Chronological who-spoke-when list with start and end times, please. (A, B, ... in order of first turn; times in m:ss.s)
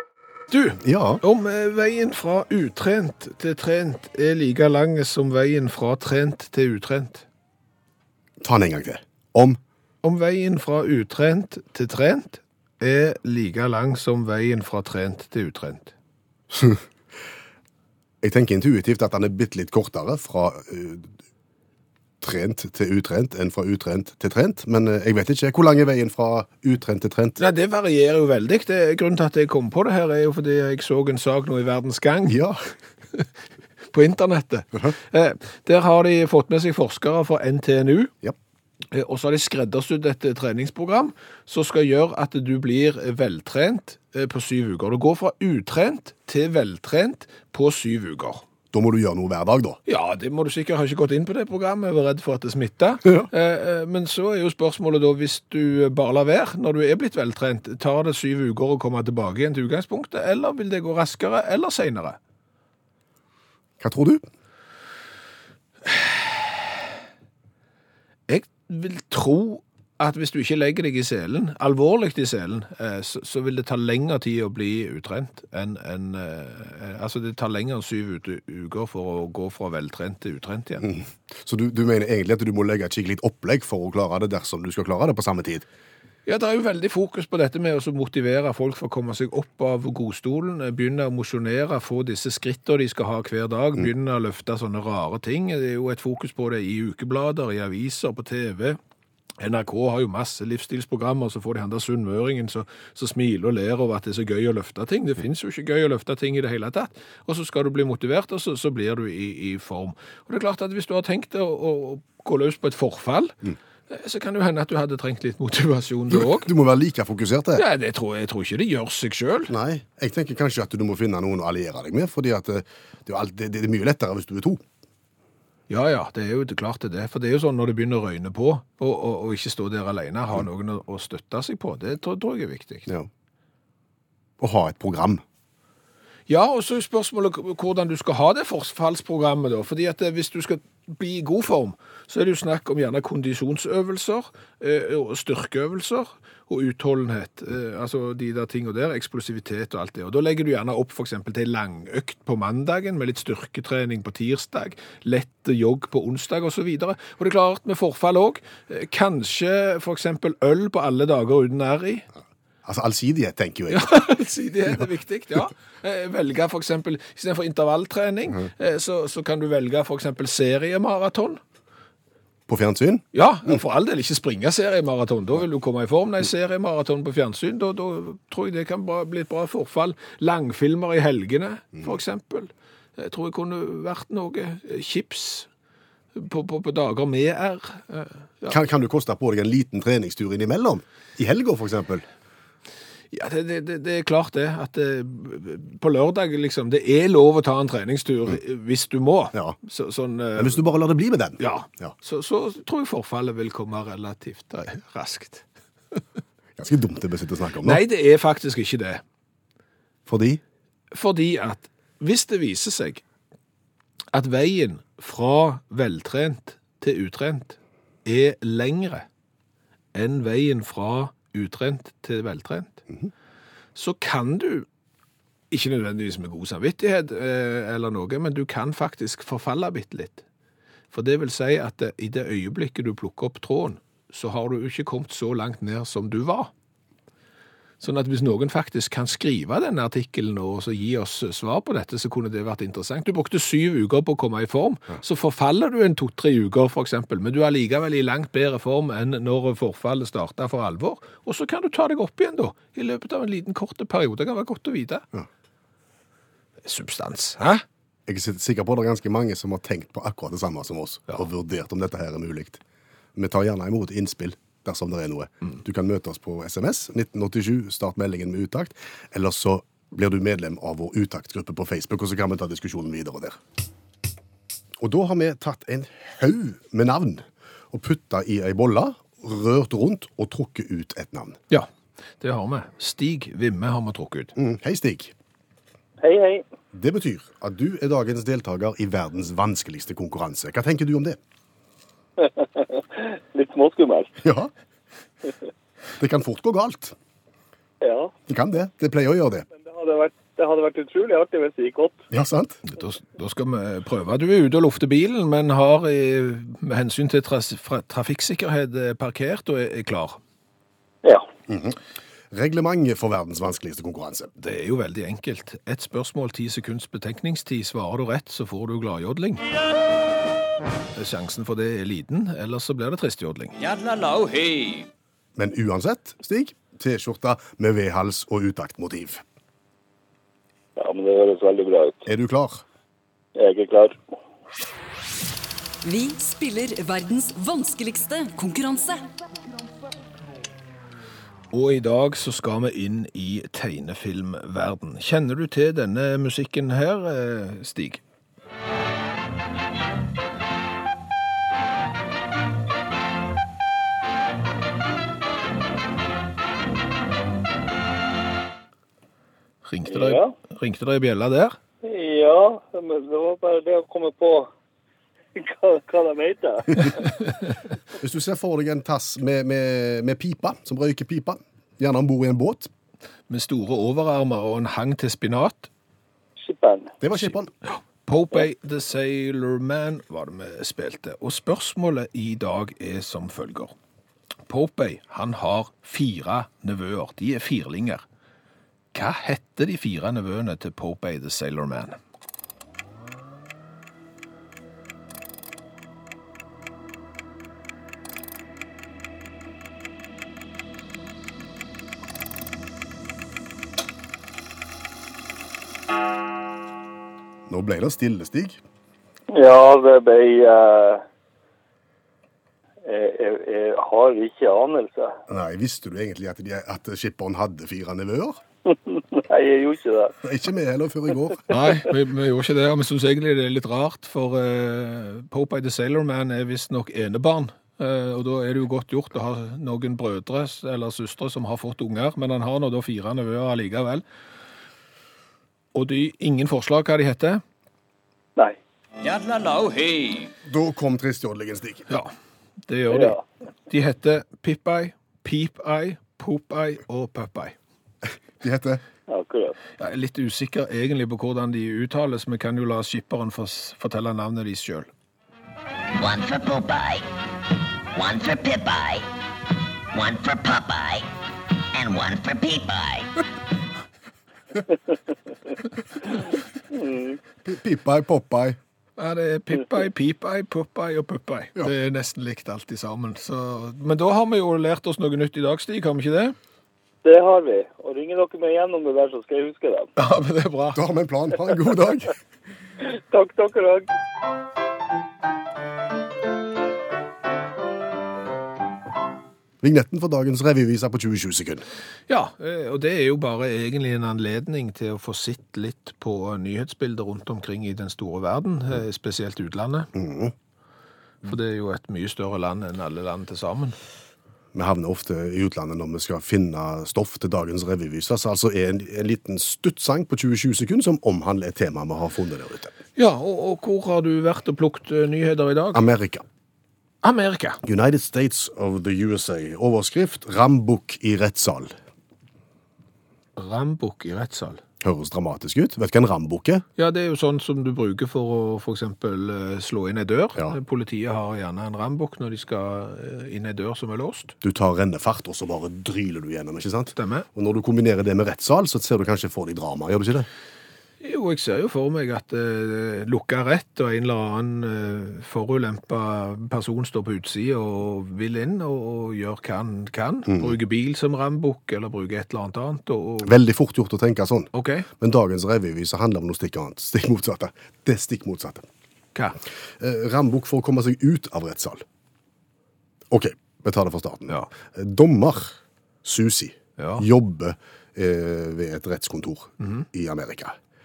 0:00.5-0:07.2 A
0:00.8-0:01.2 B
0:08.4-0:09.6 B
0:10.0-0:15.9 A
0:16.5-0:16.8 B
0:18.2-0:21.1 B
0:22.2-0:27.4 B
0:27.4-0:32.4 A
0:32.3-0:32.6 B
0:33.9-0:38.1 A
0:38.9-0:48.4 A
0:48.7-0:49.8 B
0:49.9-1:02.2 A
1:03.8-1:04.2 B
1:08.3-1:20.9 A
1:20.8-1:25.6 B
1:26.2-1:38.8 A
1:39.4-1:56.5 A
1:56.1-1:57.6 B
1:57.6-1:59.5 A
1:59.5-2:04.6 B
2:05.7-2:12.9 A
2:14.4-2:15.2 B
2:16.3-2:42.0 A
2:42.6-2:44.0 B
2:43.7-2:51.4 A
2:52.5-2:53.0 B
2:53.1-3:05.5 A
3:06.1-3:08.6 A
3:08.5-3:12.0 B
3:13.1-3:20.7 A
3:20.4-3:21.9 B
3:21.4-3:25.4 A
3:26.6-3:27.8 B
3:27.6-3:29.0 A
3:30.1-3:30.4 B
3:30.9-3:33.0 A
3:34.1-3:39.0 A
3:39.9-3:42.8 A
3:43.7-3:44.7 A
3:45.5-3:50.2 A
3:50.9-3:56.5 A
3:57.8-4:15.0 A
4:16.6-4:17.6 A
4:18.1-4:22.6 B
4:23.1-4:33.4 B
4:34.8-4:41.4 B
4:42.2-4:44.3 A
4:44.4-4:45.1 B
4:46.0-4:46.4 C
4:46.7-4:51.2 B
4:52.2-4:54.1 C
4:54.2-4:54.5 B
4:56.0-4:56.9 B
4:57.8-4:58.1 C
4:58.3-4:59.5 B
4:59.6-5:02.0 C
5:02.1-5:02.6 B
5:02.7-5:10.2 A
5:11.5-5:11.8 B
5:12.3-5:14.3 B
5:14.4-5:19.4 A
5:20.9-5:23.6 A
5:23.6-5:24.9 D
5:25.4-5:29.2 B
5:30.8-5:32.0 C
5:32.0-5:32.6 B
5:33.4-5:34.0 C
5:35.8-5:39.0 E
5:41.5-5:48.0 A
5:59.6-6:01.6 A
5:59.9-6:00.3 C
6:01.8-6:04.5 C
6:05.4-6:07.2 C
6:07.9-6:12.7 B
6:13.3-6:15.7 A
6:16.4-6:16.9 C
6:17.0-6:17.5 B
6:17.1-6:23.7 A
6:24.4-6:28.0 A
6:28.9-6:32.0 A
6:47.5-6:48.6 B
6:49.3-6:51.0 C
6:52.8-6:55.1 C
6:55.3-6:58.4 B
6:58.6-7:00.1 C
7:00.2-7:01.5 B
7:01.5-7:14.0 A
7:15.7-7:17.4 A
7:19.0-7:20.3 D
7:20.4-7:21.9 B
7:22.6-7:23.2 A
7:22.9-7:23.2 C
7:23.7-7:27.6 A
7:28.4-7:28.8 B
7:29.1-7:29.6 C
7:29.8-7:34.9 A
7:36.0-7:37.0 F
7:37.9-7:39.0 F
7:39.9-7:41.0 F
7:41.7-7:43.1 F
7:46.7-7:47.2 C
7:47.4-7:48.6 B
7:49.0-7:56.3 A
7:57.0-7:59.9 C
8:00.0-8:00.8 A
8:00.7-8:02.2 B
8:02.8-8:03.9 C
8:09.6-8:11.6 B
8:12.1-8:19.9 A
8:19.9-8:20.3 B
8:21.2-8:23.8 A
8:24.5-8:32.7 B
8:33.0-8:35.9 A
8:35.7-8:36.2 B
8:37.0-8:37.6 A
8:37.6-8:41.7 B
8:43.4-8:44.6 A
8:44.8-8:46.6 B
8:46.8-8:54.3 A
8:54.4-9:00.3 B
8:56.9-8:57.2 A
9:01.0-9:13.3 A
9:13.2-9:18.6 B
9:14.5-9:14.9 A
9:19.8-9:21.8 B
9:23.1-9:30.5 B
9:26.8-9:27.0 A